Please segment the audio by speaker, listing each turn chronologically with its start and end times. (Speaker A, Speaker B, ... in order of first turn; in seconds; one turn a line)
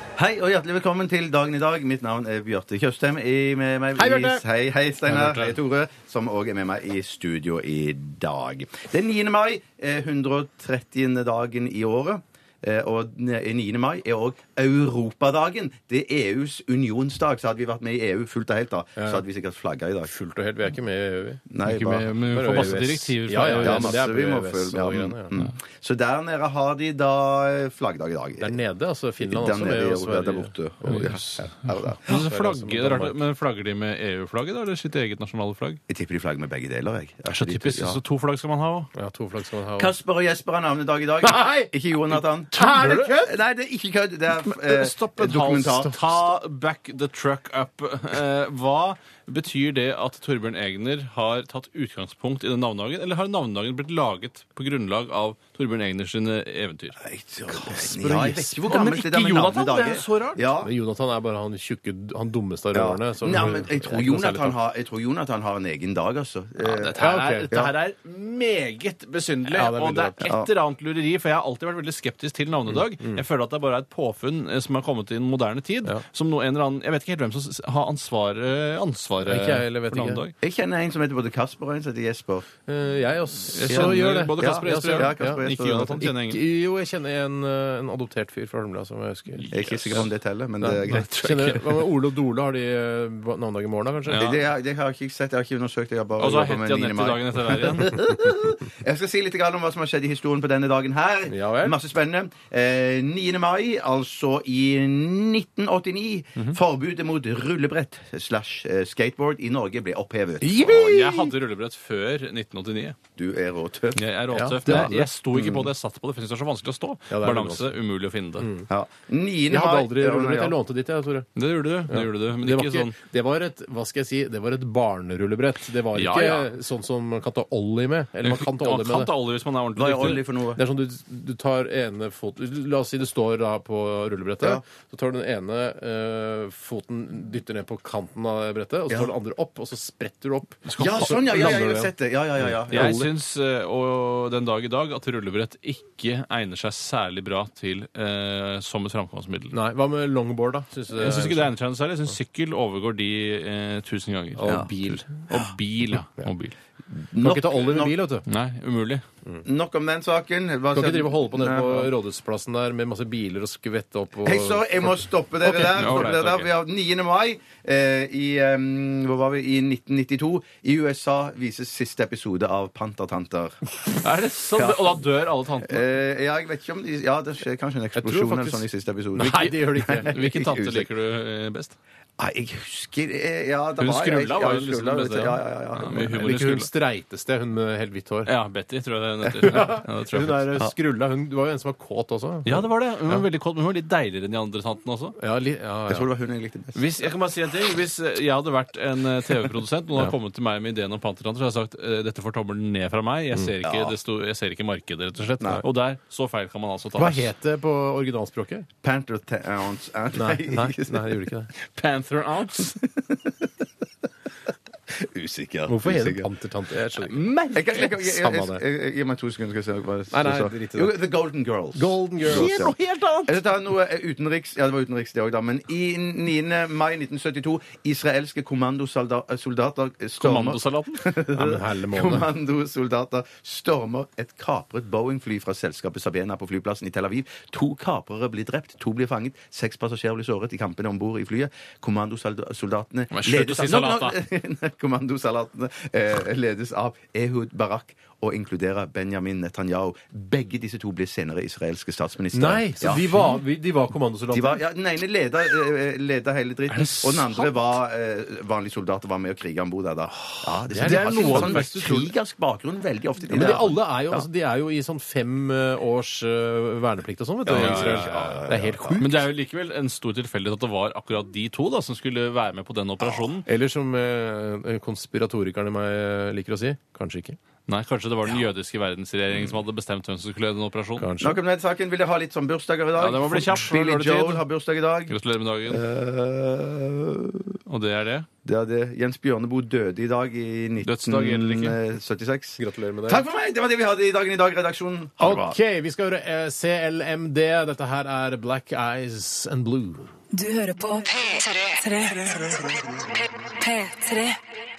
Speaker A: 0.1-20.1
Speaker B: 4.0-4.4
Speaker C: 5.1-5.5
Speaker B: 19.0-19.2
Speaker B: 20.1-25.3
Speaker A: 21.5-22.1
Speaker C: 21.6-24.0
Speaker A: 23.5-28.5
Speaker B: 28.4-33.2
Speaker A: 29.2-32.0
Speaker C: 30.9-31.5
Speaker C: 32.0-35.8
Speaker A: 35.9-38.0
Speaker C: 37.3-38.9
Speaker B: 38.9-39.9
Speaker A: 39.8-46.2
Speaker B: 41.2-41.7
Speaker B: 42.5-43.3
Speaker C: 42.5-43.1
Speaker C: 44.5-57.0
Speaker A: 57.0-60.7
Speaker B: 57.5-58.6
Speaker C: 58.6-60.4
Speaker B: 60.6-64.6
Speaker A: 62.7-67.7
Speaker C: 66.6-80.3
Speaker B: 67.0-67.5
Speaker B: 69.5-70.3
Speaker A: 70.2-70.5
Speaker B: 73.0-73.2
Speaker B: 79.2-80.2
Speaker A: 80.4-82.5
Speaker B: 82.7-89.5
Speaker C: 83.5-86.4
Speaker A: 83.7-86.0
Speaker C: 89.4-90.1
Speaker A: 89.5-91.6
Speaker B: 90.6-94.2
Speaker C: 90.9-91.8
Speaker C: 94.1-94.4
Speaker A: 94.1-111.0
Speaker C: 96.2-98.0
Speaker B: 101.3-101.8
Speaker B: 110.4-111.3
Speaker C: 110.8-113.0
Speaker A: 113.2-114.0
Speaker C: 114.0-118.5
Speaker B: 114.3-115.7
Speaker A: 114.6-115.0
Speaker B: 117.1-117.7
Speaker B: 118.4-118.7
Speaker A: 118.7-120.5
Speaker B: 119.5-121.3
Speaker C: 121.4-122.9
Speaker B: 121.9-129.1
Speaker C: 125.9-126.5
Speaker C: 128.2-130.2
Speaker A: 129.8-130.6
Speaker B: 130.5-143.1
Speaker C: 140.7-141.7
Speaker A: 140.8-143.1
Speaker C: 142.7-149.5
Speaker B: 149.5-151.5
Speaker C: 150.9-156.5
Speaker B: 154.4-155.1
Speaker A: 156.9-157.9
Speaker B: 157.2-158.2
Speaker C: 158.2-159.0
Speaker A: 159.4-161.9
Speaker B: 160.7-166.1
Speaker A: 164.2-173.6
Speaker C: 165.5-166.5
Speaker C: 174.0-175.8
Speaker A: 174.6-175.0
Speaker A: 175.6-180.9
Speaker B: 177.9-180.2
Speaker C: 179.2-181.8
Speaker A: 182.2-186.2
Speaker C: 183.8-186.7
Speaker B: 185.9-188.3
Speaker C: 188.3-190.6
Speaker B: 189.4-193.2
Speaker C: 192.4-195.2
Speaker B: 195.2-196.1
Speaker A: 195.9-197.1
Speaker C: 196.8-207.3
Speaker A: 203.6-203.9
Speaker B: 207.0-208.7
Speaker A: 208.8-211.2
Speaker B: 210.1-211.5
Speaker C: 211.6-212.8
Speaker A: 212.7-213.1
Speaker A: 214.9-216.3
Speaker B: 215.7-218.6
Speaker C: 217.0-217.8
Speaker A: 217.5-253.2
Speaker B: 220.1-221.0
Speaker B: 221.7-222.7
Speaker C: 222.2-223.4
Speaker C: 230.2-231.1
Speaker B: 231.3-232.3
Speaker C: 243.1-244.2
Speaker B: 252.3-254.6
Speaker A: 254.3-264.3
Speaker C: 256.7-257.5
Speaker B: 260.3-262.1
Speaker C: 260.8-261.9
Speaker B: 263.3-269.2
Speaker A: 267.4-269.0
Speaker C: 267.5-273.4
Speaker B: 273.4-277.4
Speaker C: 277.7-281.1
Speaker B: 281.0-281.4
Speaker A: 281.2-287.6
Speaker C: 282.9-284.4
Speaker C: 285.1-285.8
Speaker C: 287.7-288.3
Speaker A: 288.4-295.6
Speaker C: 290.8-291.8
Speaker B: 292.6-293.2
Speaker B: 295.2-300.1
Speaker D: 300.3-304.4